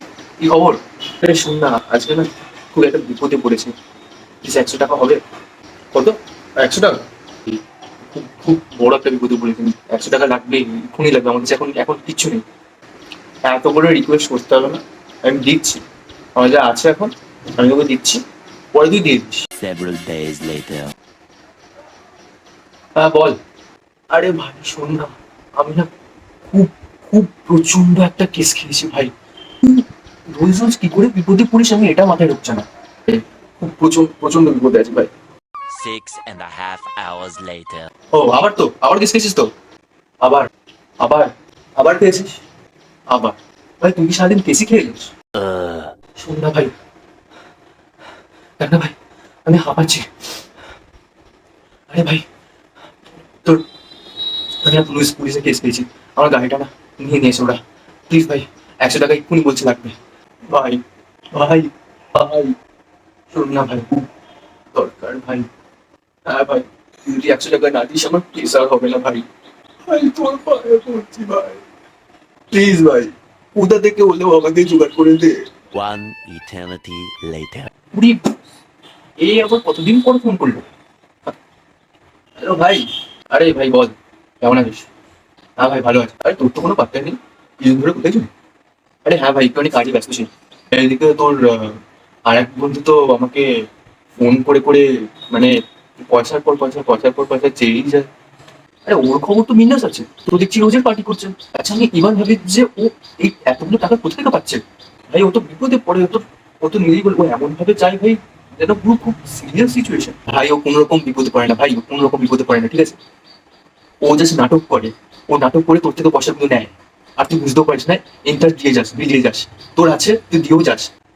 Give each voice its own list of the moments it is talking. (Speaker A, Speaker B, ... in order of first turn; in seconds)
Speaker A: 0.4-3.7, 4.4-5.2, 5.9-12.4, 13.4-15.8, 16.4-18.2, 18.7-19.4, 22.9-23.4, 24.1-25.9, 26.5-29.1, 29.6-35.1, 38.1-39.5, 41.0-42.4, 43.1-45.1, 46.2-46.7, 48.6-48.9, 49.5-50.1, 51.9-52.2, 54.6-60.0, 60.5-60.8, 61.3-62.5, 63.3-64.1, 64.7-65.5, 66.3-69.2, 69.9-71.6, 72.5-75.5, 77.9-78.4, 79.2-80.7, 82.4-84.9, 85.6-88.3, 89.0-98.1, 98.8-113.0, 114.0-120.9
Speaker B: 19.6-20.9, 35.7-37.9, 45.3-46.0, 75.7-77.7